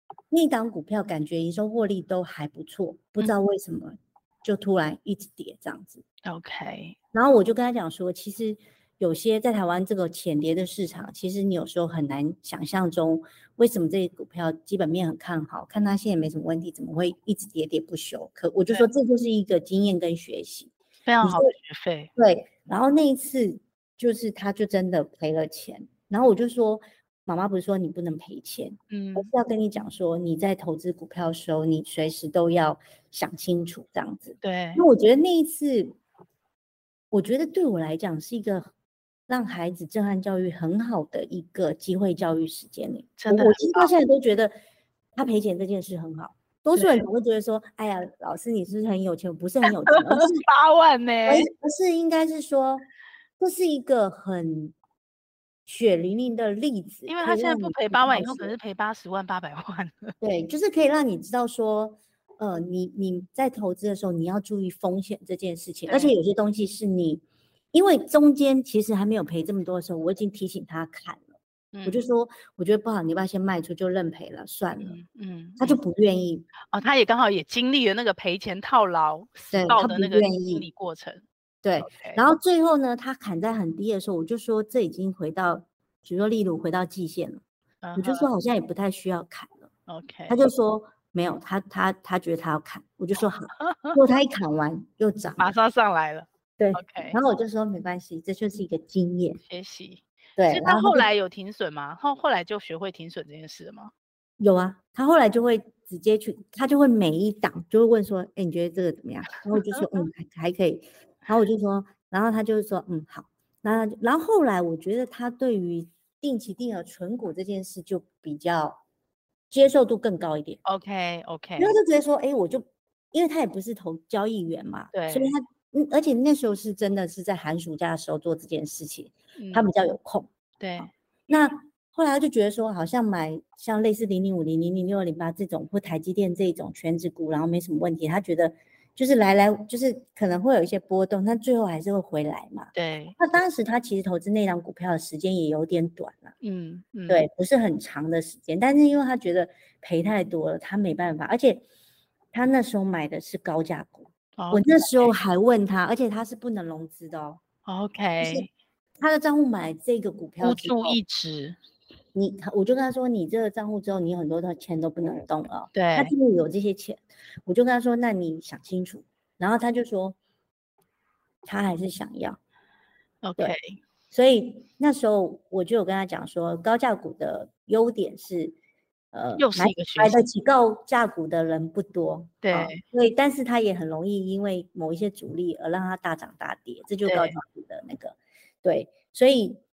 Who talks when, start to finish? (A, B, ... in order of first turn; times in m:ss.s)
0:00.3-0:06.0 A
0:06.2-0:07.0 B
0:07.1-0:21.5 A
0:21.0-0:22.1 B
0:22.2-0:36.0 A
0:28.9-0:29.3 B
0:34.4-0:34.8 B
0:37.1-0:38.7 A
0:39.3-0:44.5 A
0:43.2-0:43.9 B
0:45.1-0:50.4 A
0:46.7-0:47.0 B
0:49.9-0:51.5 B
0:51.2-0:52.9 A
0:53.4-0:54.7 A
0:55.6-0:58.6 A
0:57.1-1:00.1 B
1:00.2-1:11.3 A
1:05.9-1:06.1 B
1:11.7-1:12.0 B
1:11.8-1:15.0 A
1:14.8-1:15.8 B
1:15.6-1:16.5 A
1:16.7-1:21.2 B
1:19.5-1:20.6 A
1:21.6-1:27.4 A
1:21.8-1:22.2 B
1:27.8-1:28.3 B
1:28.0-1:29.7 A
1:29.9-1:30.4 B
1:30.3-1:35.5 A
1:33.6-1:34.0 B
1:35.4-1:37.2 B
1:36.6-1:39.4 A
1:39.4-1:43.9 B
1:40.4-1:41.0 A
1:44.4-1:58.8 A
1:49.5-1:49.8 B
1:59.5-2:00.6 A
2:00.6-2:01.8 B
2:01.6-2:26.3 A
2:04.9-2:05.3 B
2:09.4-2:09.7 B
2:10.6-2:10.9 B
2:22.7-2:23.2 B
2:26.4-2:27.2 B
2:27.1-2:31.6 A
2:32.3-2:37.4 A
2:34.4-2:35.1 B
2:37.6-2:38.5 B
2:38.2-2:38.5 A
2:39.0-2:41.0 A
2:40.4-2:41.6 B
2:42.1-2:50.2 A
2:45.7-2:46.1 B
2:51.4-2:52.4 A
2:53.2-2:53.8 B
2:54.1-2:58.6 A
2:59.1-3:09.6 A
2:59.4-3:00.2 B
3:02.4-3:02.8 B
3:07.0-3:07.4 B